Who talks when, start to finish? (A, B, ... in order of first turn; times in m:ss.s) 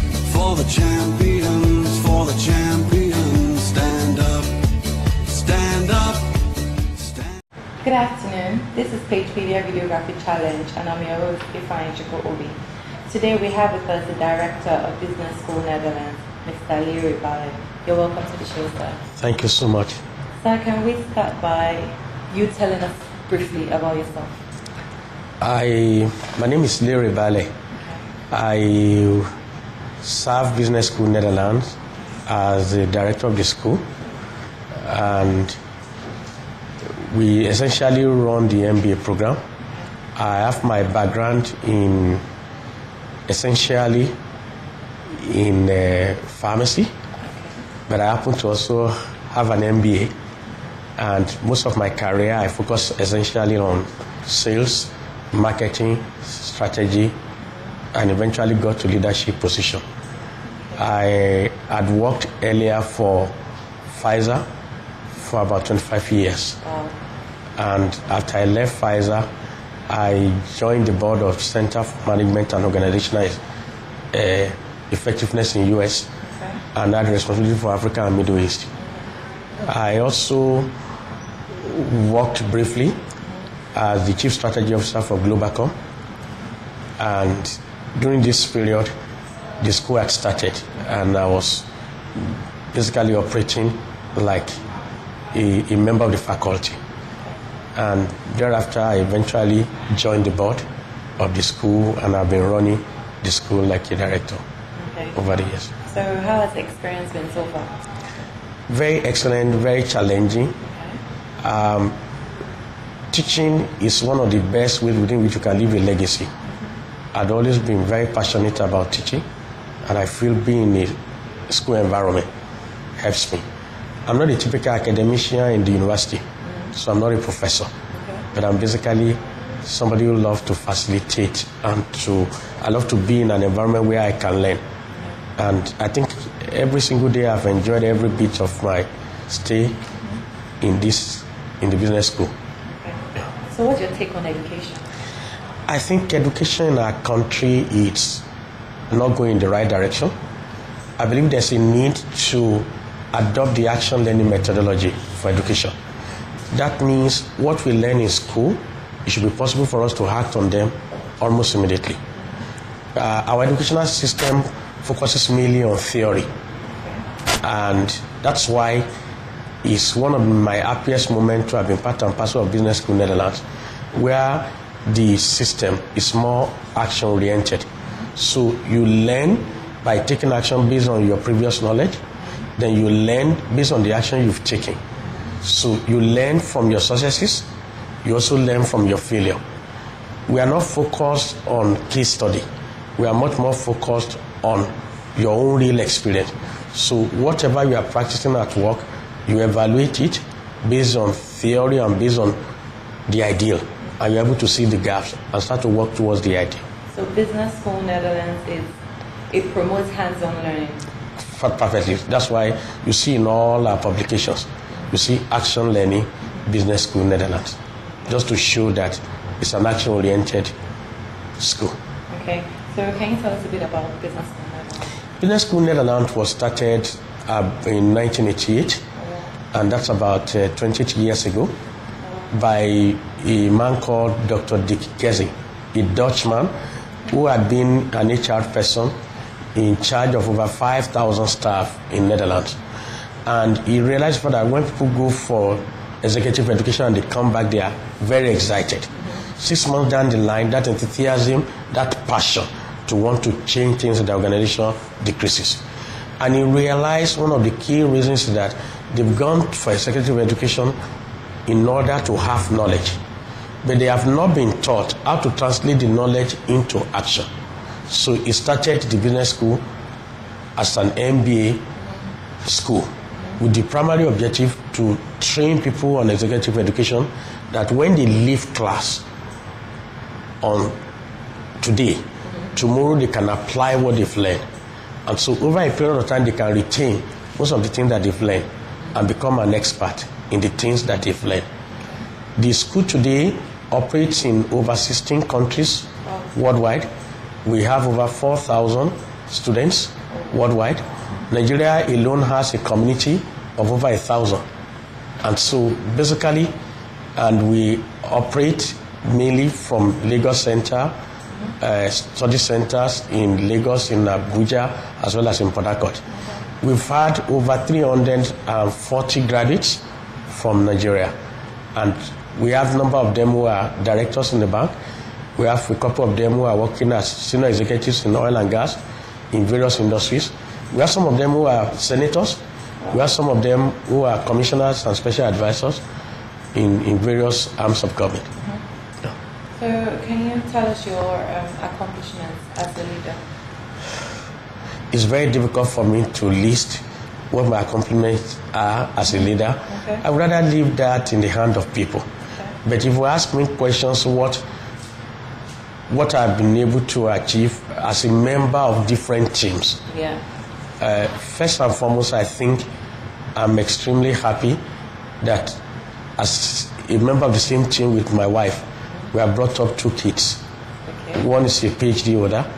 0:00.2-0:04.7 A
0:05.2-0:07.4 A
0:07.8-0:12.6 B
0:13.1-0:19.0 B
0:19.2-0:20.0 C
0:20.4-0:24.4 B
0:25.4-0:27.5 C
0:28.3-0:29.3 C
0:30.0-0:31.8 C
0:32.3-0:33.8 C
0:34.8-0:35.6 C
0:37.0-0:39.4 C
0:40.2-0:42.2 C
0:43.3-0:44.1 C
0:45.1-0:46.9 C
0:47.9-0:50.1 C
0:51.0-0:57.1 C
0:57.9-0:59.8 C
1:00.8-1:03.3 C
1:03.9-1:04.4 C
1:05.2-1:06.6 C
1:06.6-1:06.9 B
1:07.6-1:09.3 C
1:09.9-1:13.4 C
1:14.1-1:16.1 C
1:16.3-1:16.6 B
1:16.7-1:18.7 C
1:19.7-1:20.7 C
1:21.6-1:23.0 C
1:23.7-1:25.7 C
1:27.0-1:28.9 C
1:29.6-1:31.7 C
1:32.7-1:34.6 C
1:35.3-1:36.8 C
1:37.8-1:40.6 C
1:41.2-1:44.4 C
1:44.8-1:45.2 B
1:45.2-1:45.7 C
1:45.8-1:47.7 B
1:48.7-1:50.6 C
1:50.6-1:51.0 B
1:51.4-1:51.9 C
1:53.1-1:56.3 C
1:57.1-1:59.2 C
1:59.9-2:01.0 C
2:01.5-2:02.3 C
2:03.0-2:03.4 C
2:04.1-2:06.2 C
2:06.8-2:07.7 C
2:07.9-2:08.2 B
2:08.3-2:14.6 C
2:15.4-2:19.8 C
2:20.6-2:22.3 C
2:22.7-2:24.8 B
2:25.7-2:28.2 C
2:28.9-2:30.1 C
2:31.0-2:35.7 C
2:36.5-2:42.0 C
2:43.0-2:46.3 C
2:47.4-2:48.9 C
2:49.6-3:02.0 C
3:02.6-3:04.8 C
3:05.4-3:07.5 C
3:08.0-3:09.4 C
3:10.3-3:12.4 C
3:13.0-3:22.4 C
3:23.1-3:26.6 C
3:26.9-3:28.8 B
3:29.3-3:30.8 B
3:31.3-3:40.5 C
3:41.4-3:41.8 C
3:42.1-3:44.9 B
3:45.2-3:48.8 C
3:49.5-3:51.5 C
3:52.0-3:52.3 B
3:52.3-3:56.5 C
3:57.1-3:58.9 C
3:59.6-4:02.6 C
4:03.3-4:15.6 C
4:16.2-4:20.8 C
4:21.5-4:23.0 C
4:23.6-4:27.3 C
4:27.9-4:29.6 C
4:30.6-4:31.6 C
4:32.4-4:39.0 C
4:40.4-4:40.7 C
4:41.6-4:42.0 C
4:42.5-4:44.4 C
4:45.1-4:51.4 C
4:52.4-4:56.9 C
4:57.4-5:04.4 C
5:05.2-5:06.5 C
5:07.2-5:10.9 C
5:11.6-5:16.0 C
5:16.6-5:21.1 C
5:21.8-5:24.7 C
5:25.4-5:28.8 C
5:29.3-5:32.4 C
5:32.9-5:35.8 C
5:36.5-5:38.3 C
5:39.6-5:43.2 B
5:44.9-5:52.1 C
5:49.7-5:50.0 B
5:52.6-5:54.4 C
5:55.9-5:59.8 C
5:59.9-6:00.2 B
6:00.8-6:02.7 C
6:03.4-6:04.6 C
6:05.2-6:05.6 C
6:06.2-6:10.4 C
6:10.9-6:11.2 B
6:11.2-6:12.5 C